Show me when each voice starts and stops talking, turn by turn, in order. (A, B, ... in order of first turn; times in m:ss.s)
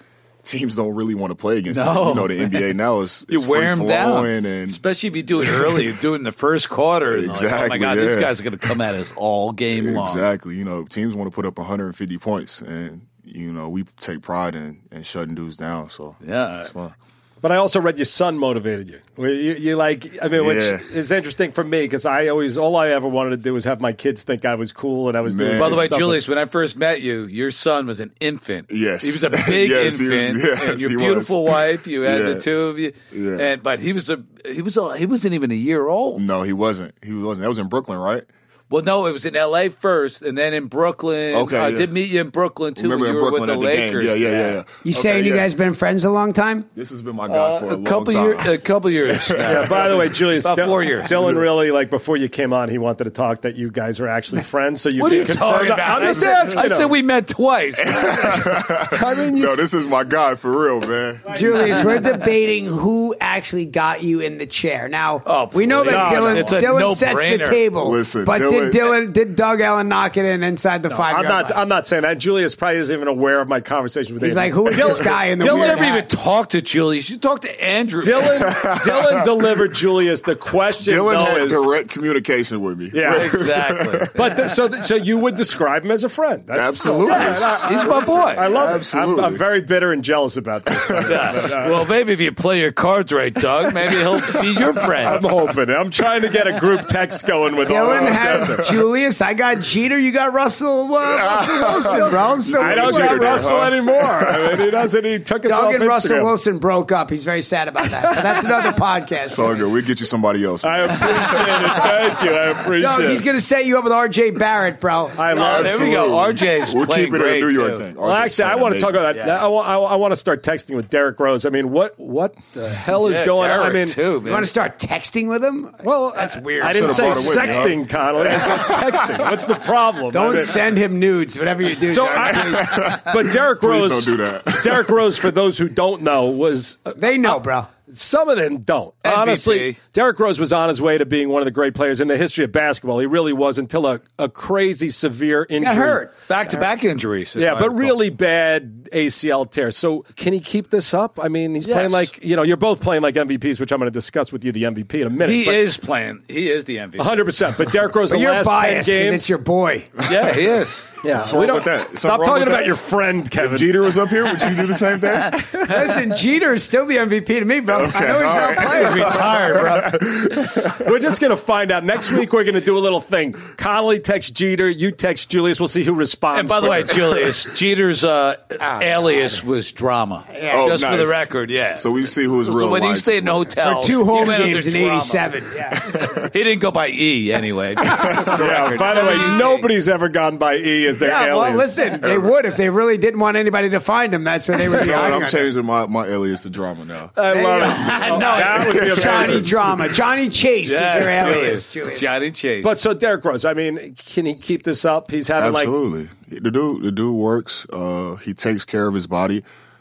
0:00.4-0:04.8 A
0:01.7-0:02.8 B
0:03.3-0:10.3 B
0:05.4-0:06.0 A
0:07.1-0:08.7 A
0:09.8-0:17.0 A
0:16.2-0:16.7 B
0:17.4-0:26.2 C
0:20.3-0:20.9 A
0:25.2-0:26.2 A
0:25.6-0:36.2 B
0:28.7-0:32.5 A
0:33.1-0:33.5 A
0:36.1-0:38.3 A
0:38.7-0:44.6 B
0:41.3-0:41.9 A
0:42.8-0:45.5 A
0:44.8-0:46.7 D
0:46.7-0:50.1 A
0:47.3-0:51.4 B
0:49.4-0:56.9 C
0:51.1-0:51.4 A
0:55.0-0:58.4 B
0:57.8-1:01.8 A
0:58.8-0:59.7 C
1:01.3-1:11.6 D
1:01.3-1:01.8 C
1:05.2-1:07.6 B
1:05.8-1:06.7 C
1:07.8-1:09.0 A
1:10.9-1:15.9 C
1:14.2-1:16.1 D
1:15.4-1:18.5 B
1:18.0-1:21.7 C
1:18.3-1:19.6 A
1:20.8-1:24.4 A
1:22.9-1:23.4 C
1:23.0-1:24.4 B
1:24.1-1:31.8 C
1:26.5-1:29.4 A
1:27.1-1:28.5 B
1:30.7-1:31.6 A
1:31.0-1:35.2 B
1:33.9-1:35.3 A
1:35.0-1:38.6 C
1:37.6-1:43.7 D
1:37.8-1:38.9 A
1:41.0-1:44.7 A
1:41.7-1:46.3 C
1:45.4-1:49.7 D
1:48.0-1:48.7 C
1:49.3-1:52.1 A
1:50.6-1:53.3 C
1:52.8-1:55.3 D
1:55.2-1:55.8 C
1:55.3-1:57.9 B
1:55.3-1:59.2 A
1:58.0-2:04.0 C
2:02.9-2:04.5 B
2:04.2-2:07.8 D
2:05.8-2:10.6 C
2:06.6-2:09.4 A
2:10.1-2:13.0 D
2:11.8-2:26.0 C
2:12.2-2:15.3 A
2:17.0-2:17.7 D
2:19.0-2:19.8 B
2:25.6-2:26.7 D
2:26.3-2:28.0 B
2:27.4-2:35.6 C
2:31.6-2:32.1 B
2:35.2-2:37.2 B
2:37.0-2:39.4 C
2:38.1-2:40.0 D
2:40.0-2:41.0 B
2:40.1-2:40.4 A
2:41.0-2:43.8 C
2:41.1-2:45.8 A
2:45.7-2:49.5 D
2:47.7-2:50.9 A
2:48.5-2:50.0 B
2:50.4-2:57.4 C
2:56.3-3:05.4 B
2:58.6-2:59.4 D
3:00.3-3:00.7 D
3:00.5-3:03.5 A
3:03.6-3:06.1 D
3:05.8-3:06.3 A
3:06.0-3:09.7 B
3:07.8-3:08.8 A
3:08.2-3:11.7 C
3:11.0-3:15.5 D
3:12.0-3:12.4 A
3:14.6-3:17.2 A
3:17.2-3:19.6 C
3:17.3-3:22.1 D
3:17.6-3:18.6 B
3:18.5-3:20.0 A
3:20.6-3:22.8 B
3:22.6-3:25.8 C
3:25.4-3:29.4 A